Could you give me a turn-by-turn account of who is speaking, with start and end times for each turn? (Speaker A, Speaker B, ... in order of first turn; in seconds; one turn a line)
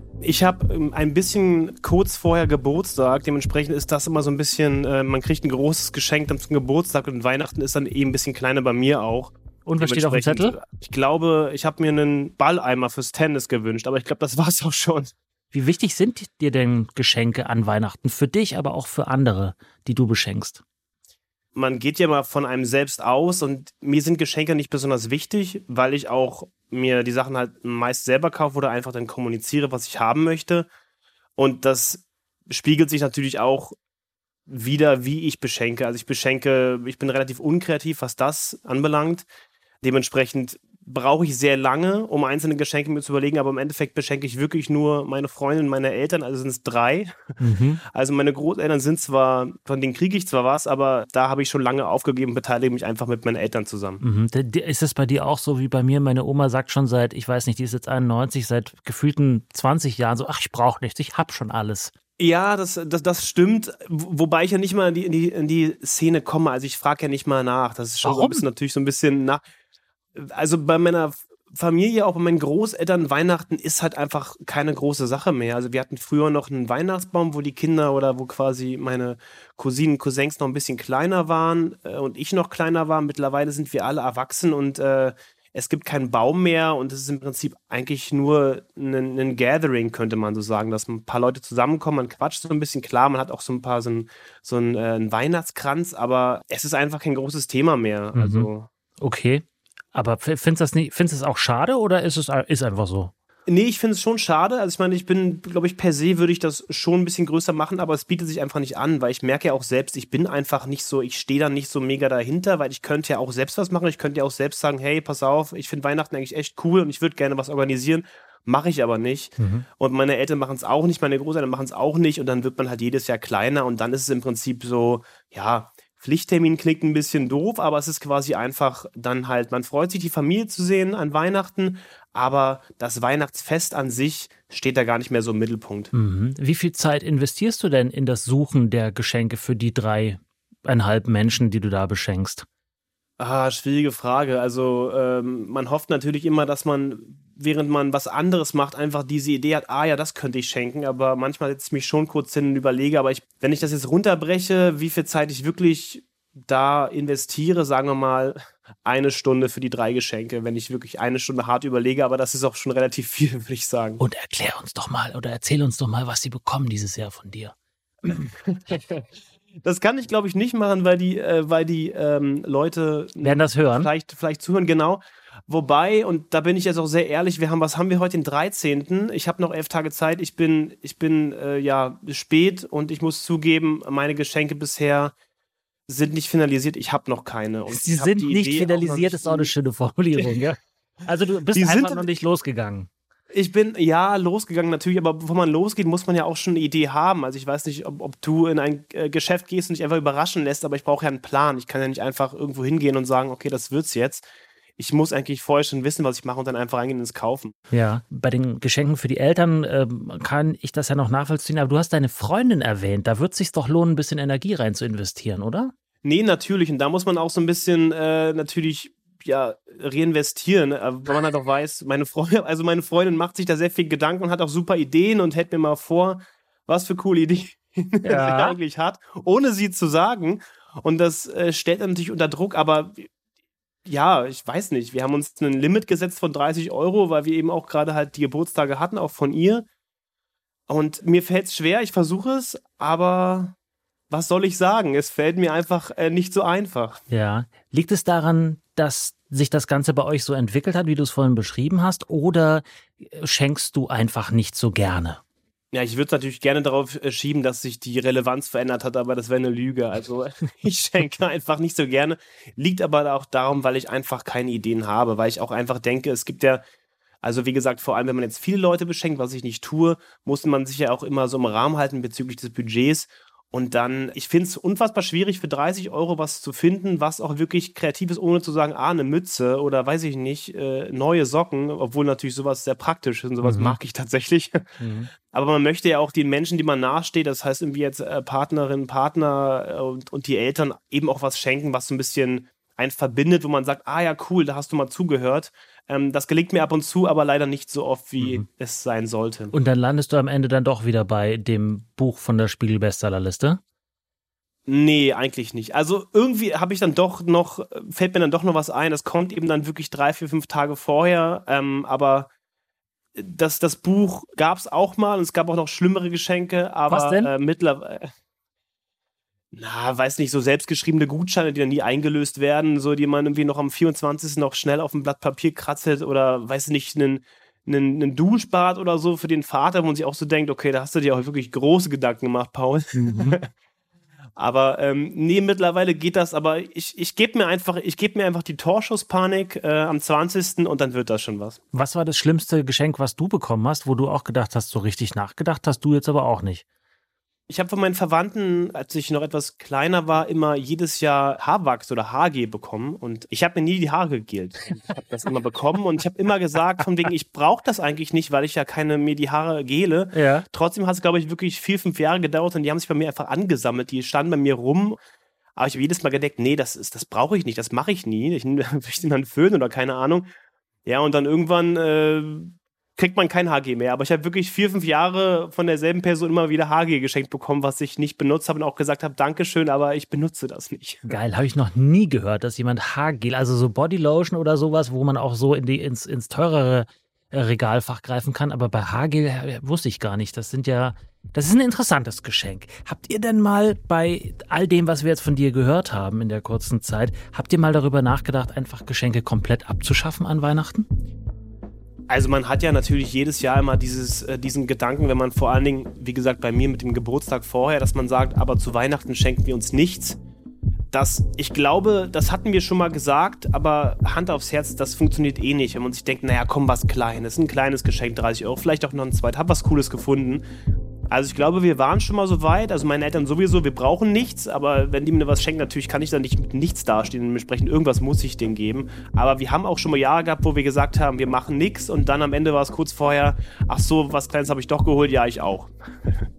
Speaker A: 0.2-15.1
Speaker B: 9.7-10.6
Speaker B: 15.5-20.6
Speaker A: 21.6-30.7
Speaker A: 31.4-33.8
Speaker A: 34.5-39.3
Speaker A: 39.8-47.4
Speaker B: 47.4-47.8
Speaker A: 47.9-54.0
Speaker B: 54.0-61.9
Speaker A: 62.2-69.4
Speaker B: 68.0-68.5
Speaker A: 70.2-98.7
Speaker B: 98.2-98.5
Speaker B: 99.0-99.4
Speaker B: 100.0-103.1
Speaker A: 103.5-135.9
Speaker B: 119.4-119.7
Speaker B: 135.9-142.5
Speaker A: 143.2-164.0
Speaker B: 164.0-167.5
Speaker A: 168.1-169.1
Speaker A: 169.6-185.1
Speaker B: 173.2-173.9
Speaker A: 185.9-189.5
Speaker B: 187.7-192.9
Speaker A: 191.6-192.1
Speaker A: 193.3-204.3
Speaker A: 204.8-207.5
Speaker B: 207.7-215.7
Speaker A: 216.0-233.1
Speaker B: 228.0-228.6
Speaker A: 233.9-239.7
Speaker A: 240.7-243.5
Speaker A: 244.1-247.0
Speaker B: 247.1-255.2
Speaker A: 255.7-266.6
Speaker A: 267.2-284.8
Speaker B: 283.4-283.8
Speaker B: 284.8-285.1
Speaker A: 285.3-299.5
Speaker B: 299.5-303.6
Speaker A: 304.7-312.3
Speaker A: 313.2-318.1
Speaker B: 316.9-317.3
Speaker A: 319.5-333.5
Speaker B: 333.0-333.4
Speaker A: 334.4-341.6
Speaker B: 341.7-346.6
Speaker A: 347.5-365.0
Speaker B: 360.1-360.4
Speaker A: 365.6-370.3
Speaker A: 370.9-381.2
Speaker B: 381.1-400.9
Speaker A: 402.1-410.2
Speaker A: 410.9-420.4
Speaker A: 421.1-436.3